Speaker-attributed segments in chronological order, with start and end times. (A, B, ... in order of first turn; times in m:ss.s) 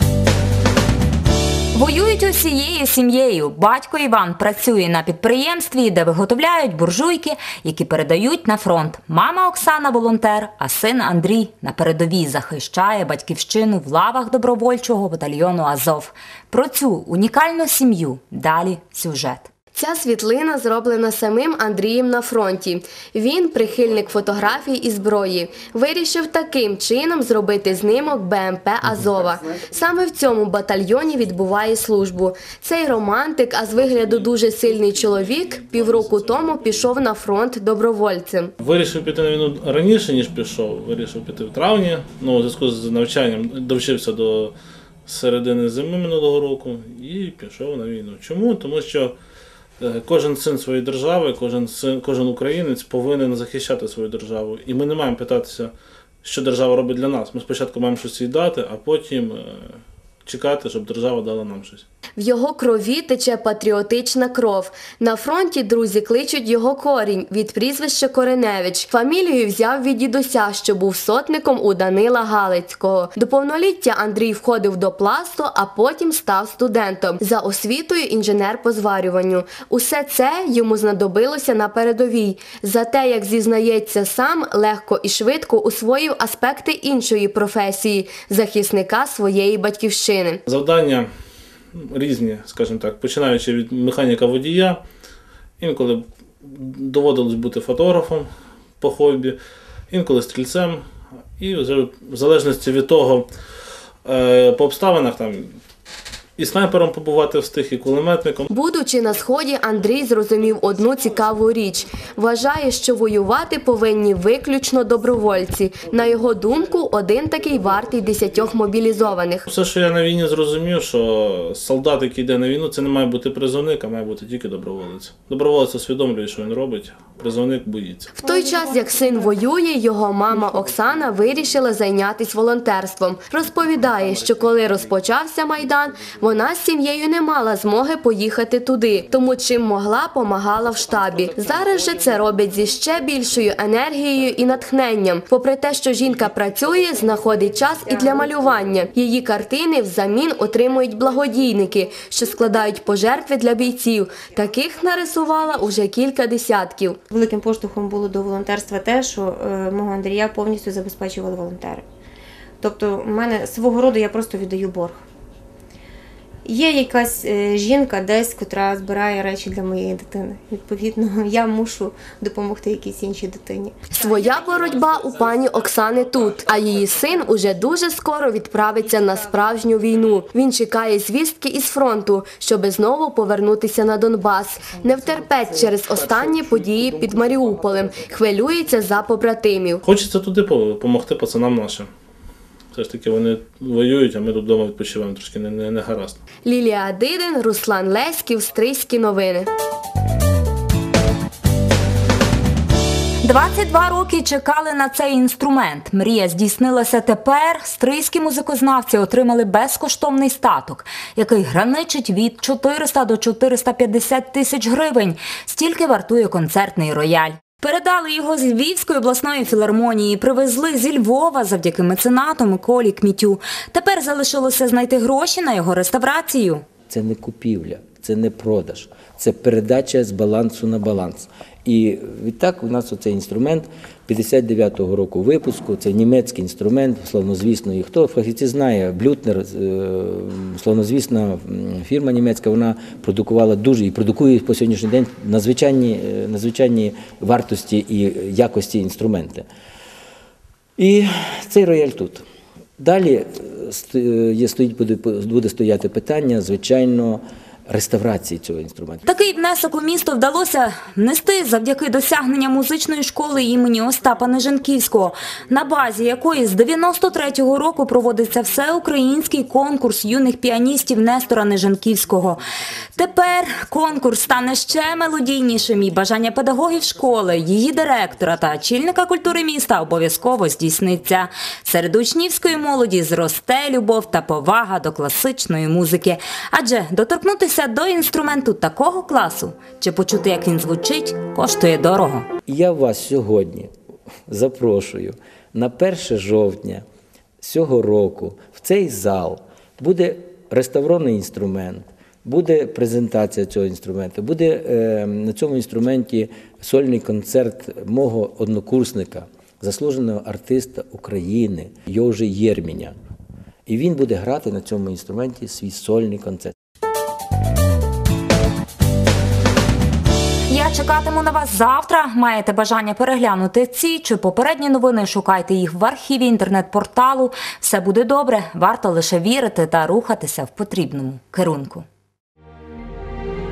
0:01.7-0:19.5 A
0:19.8-0:38.5 B
0:33.7-0:36.9 C
0:38.6-0:44.5 C
0:45.1-0:49.1 C
0:49.8-0:55.7 C
0:56.2-0:59.8 C
1:00.3-1:01.8 C
1:02.2-1:30.4 B
1:30.5-1:31.1 C
1:31.8-1:34.8 C
1:35.6-1:39.4 C
1:39.9-1:40.8 C
1:41.4-1:43.3 C
1:44.0-1:45.6 C
1:46.4-1:48.5 C
1:48.5-1:59.5 B
1:59.5-2:08.1 C
2:08.2-2:09.5 D
2:08.2-2:37.0 B
2:10.3-2:10.6 D
2:26.9-2:28.6 D
2:37.1-2:41.9 D
2:42.6-2:45.0 D
2:46.4-2:53.9 D
2:53.9-3:09.8 B
3:09.8-3:11.9 C
3:12.7-3:16.2 C
3:16.4-3:19.5 B
3:23.2-3:46.6 A
3:46.9-4:09.5 E
4:10.8-4:12.2 E
4:12.8-4:19.1 E
4:19.1-4:52.3 A
4:52.5-4:53.7 E
4:54.3-4:56.8 E
4:57.4-5:12.9 E
5:13.7-5:16.5 E
5:20.5-5:31.8 A